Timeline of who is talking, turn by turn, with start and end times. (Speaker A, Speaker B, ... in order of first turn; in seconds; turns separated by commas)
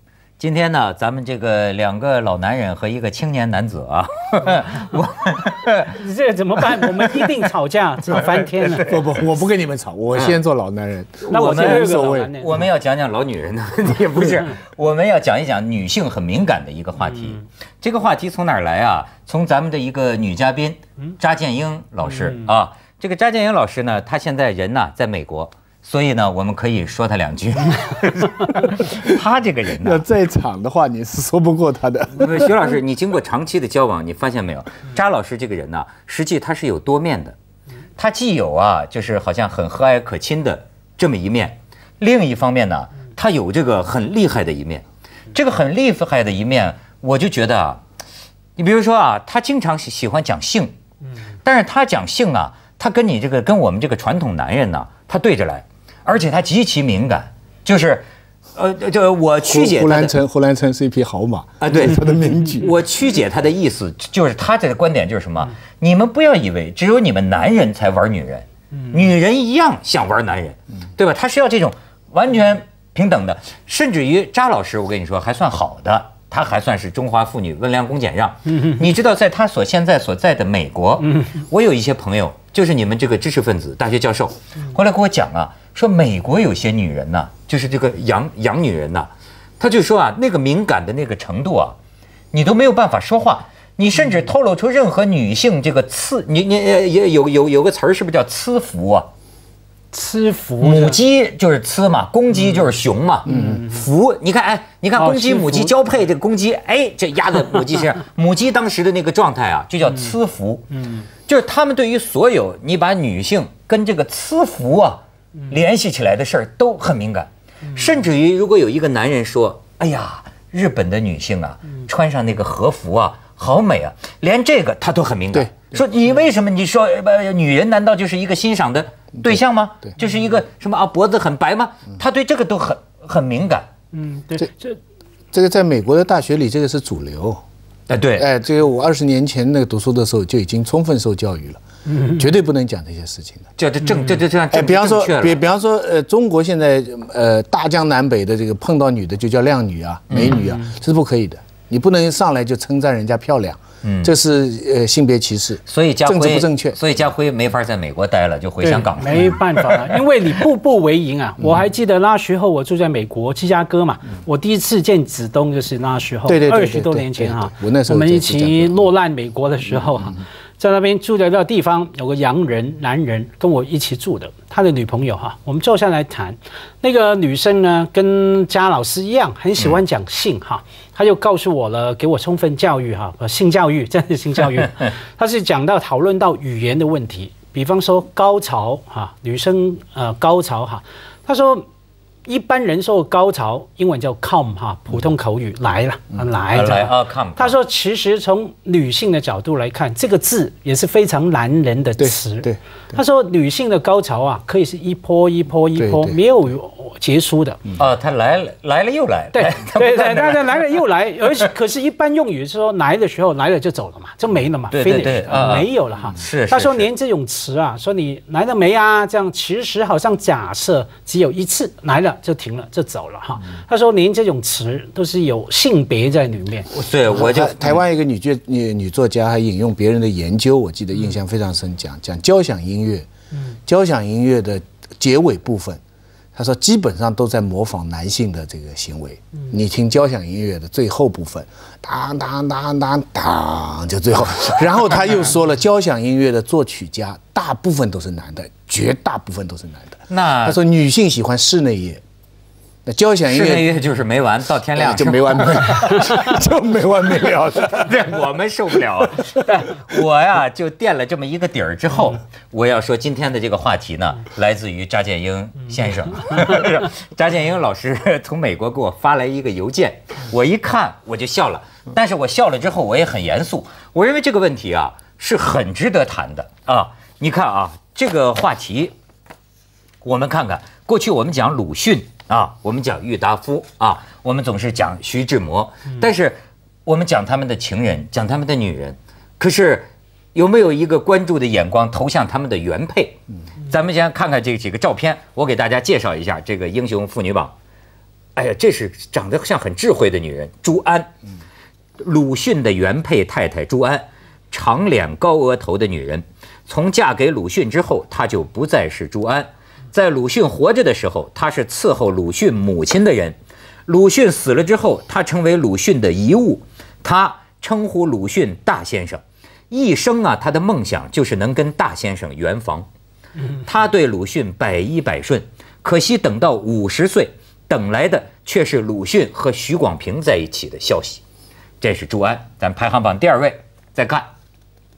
Speaker A: 0.4-6.0, Speaker B: 5.9-8.8, Speaker A: 6.8-7.3, Speaker A: 8.1-9.2, Speaker C: 8.8-12.7, Speaker A: 10.1-10.4, Speaker A: 11.3-30.0, Speaker B: 11.3-12.6, Speaker C: 29.8-32.5, Speaker A: 32.1-37.4, Speaker A: 38.0-47.8, Speaker A: 48.6-50.7, Speaker A: 51.4-60.1, Speaker C: 59.4-62.7, Speaker A: 61.6-91.8, Speaker A: 92.3-99.1, Speaker B: 99.9-101.0, Speaker A: 100.6-110.7, Speaker C: 103.3-103.6, Speaker B: 105.0-105.7, Speaker A: 111.2-133.7, Speaker C: 125.3-125.7, Speaker B: 133.9-134.8, Speaker C: 135.3-137.4, Speaker A: 137.9-138.3, Speaker C: 138.2-143.4, Speaker A: 143.6-145.4, Speaker C: 144.5-156.8, Speaker A: 150.1-150.4, Speaker A: 153.8-154.1, Speaker A: 155.7-160.0, Speaker B: 158.7-191.7, Speaker C: 166.2-168.9, Speaker B: 192.2-207.6, Speaker A: 196.5-197.6, Speaker C: 202.0-203.0, Speaker C: 205.8-206.2, Speaker A: 207.8-210.7, Speaker B: 209.3-226.7, Speaker A: 214.7-216.9, Speaker A: 226.7-227.8, Speaker C: 227.1-233.1, Speaker C: 233.7-235.8, Speaker C: 236.3-252.0, Speaker A: 250.1-250.6, Speaker C: 252.8-253.7, Speaker A: 253.3-256.1, Speaker C: 254.8-258.0, Speaker A: 257.7-278.9, Speaker A: 280.0-293.2, Speaker A: 293.7-297.5, Speaker A: 298.3-301.1, Speaker A: 302.0-313.4, Speaker A: 313.9-322.9, Speaker A: 323.6-331.2, Speaker A: 331.8-334.3